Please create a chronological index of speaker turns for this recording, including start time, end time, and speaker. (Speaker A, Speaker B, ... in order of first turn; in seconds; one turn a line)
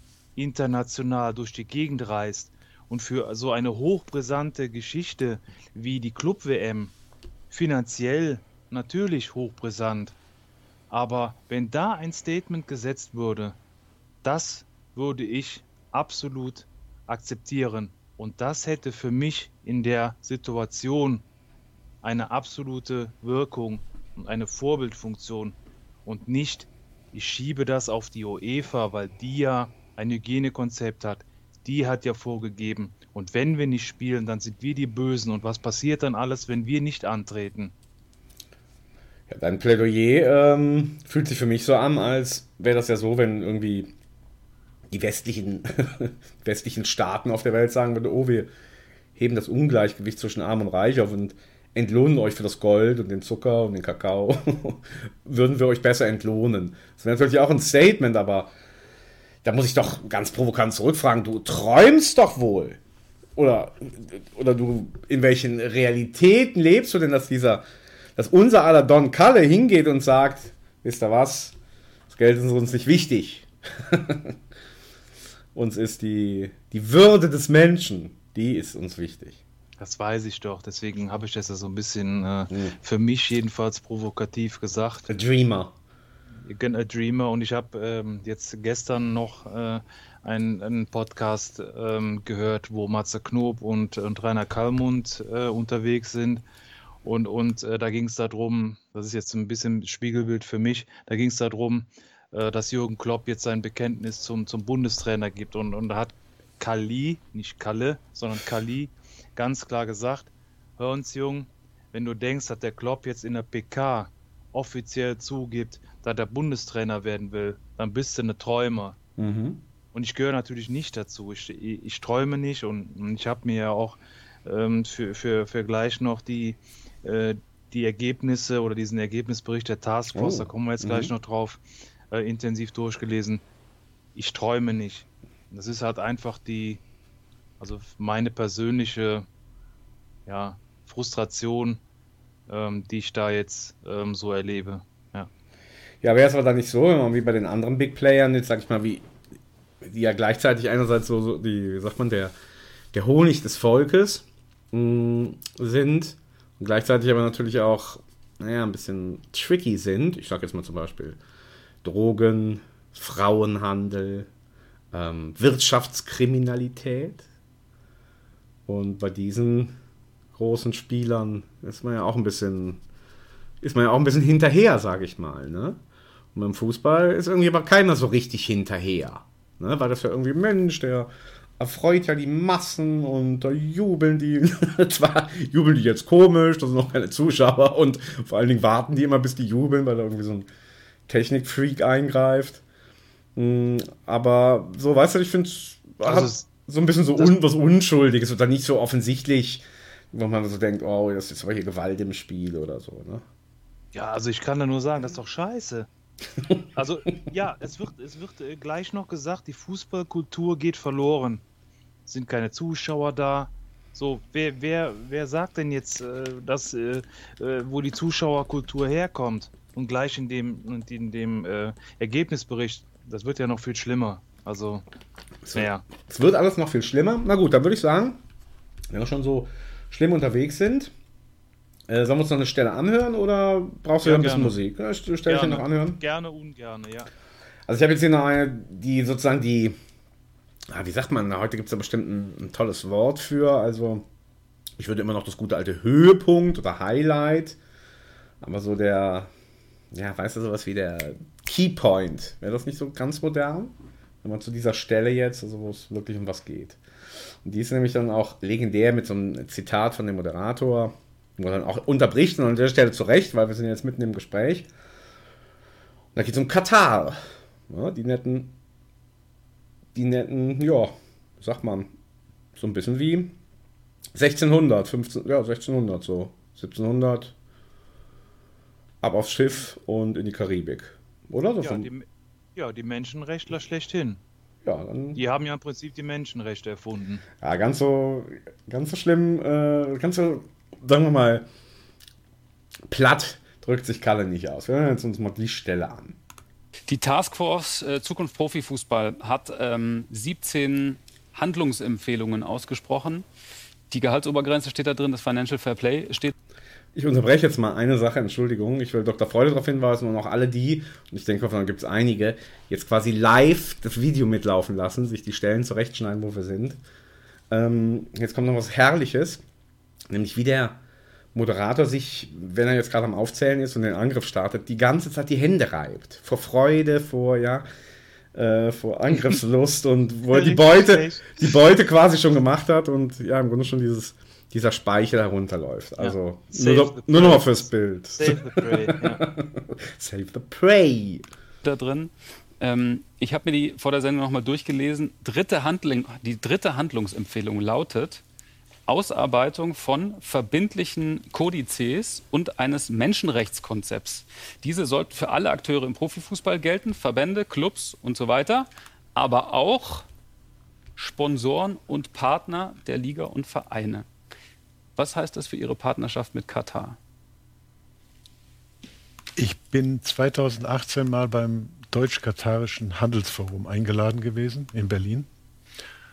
Speaker A: 0.4-6.9
Speaker A: 7.5-10.2
Speaker A: 10.9-13.6
Speaker A: 14.2-21.2
Speaker A: 22.0-37.7
Speaker B: 39.3-43.9
Speaker B: 44.9-48.5
Speaker B: 49.2-58.5
Speaker B: 59.4-62.8
Speaker B: 63.4-67.6
Speaker B: 68.2-71.5
Speaker B: 72.1-74.3
Speaker B: 75.5-79.4
Speaker A: 79.8-85.1
Speaker B: 82.5-82.8
Speaker B: 85.1-85.8
Speaker A: 86.5-96.4
Speaker A: 97.0-119.0
Speaker B: 119.2-119.6
Speaker A: 119.9-133.4
Speaker B: 130.1-131.1
Speaker A: 134.2-136.8
Speaker A: 137.6-139.3
Speaker A: 140.3-141.8
Speaker A: 142.5-145.3
Speaker B: 146.0-149.1
Speaker B: 149.8-152.3
Speaker B: 152.9-161.2
Speaker B: 161.8-164.3
Speaker B: 164.9-167.2
Speaker B: 168.7-169.8
Speaker B: 170.3-172.8
Speaker B: 173.6-175.8
Speaker B: 176.3-190.5
Speaker B: 191.1-192.6
Speaker B: 193.4-203.2
Speaker A: 196.0-196.5
Speaker A: 203.9-205.9
Speaker A: 206.8-211.4
Speaker A: 212.1-224.8
Speaker B: 225.5-228.2
Speaker A: 225.6-225.8
Speaker B: 228.9-230.9
Speaker B: 231.9-236.0
Speaker A: 234.0-234.6
Speaker A: 235.3-237.1
Speaker B: 237.7-239.8
Speaker B: 240.7-244.1
Speaker B: 244.8-247.6
Speaker B: 248.4-249.3
Speaker B: 249.9-256.8
Speaker B: 257.4-264.7
Speaker B: 266.1-268.5
Speaker B: 269.9-271.9
Speaker B: 272.6-273.4
Speaker B: 274.1-277.3
Speaker B: 279.0-281.9
Speaker A: 281.6-284.2
Speaker B: 284.6-285.2
Speaker A: 285.2-287.2
Speaker B: 287.4-291.5
Speaker B: 292.9-296.2
Speaker C: 296.9-303.3
Speaker C: 303.9-306.3
Speaker B: 306.9-316.8
Speaker B: 317.5-319.4
Speaker B: 320.1-320.8
Speaker B: 321.3-327.7
Speaker B: 328.3-341.2
Speaker A: 330.3-331.5
Speaker A: 336.0-339.2
Speaker C: 341.6-348.2
Speaker C: 348.9-360.1
Speaker C: 361.0-364.1
Speaker C: 365.0-367.0
Speaker D: 369.4-375.3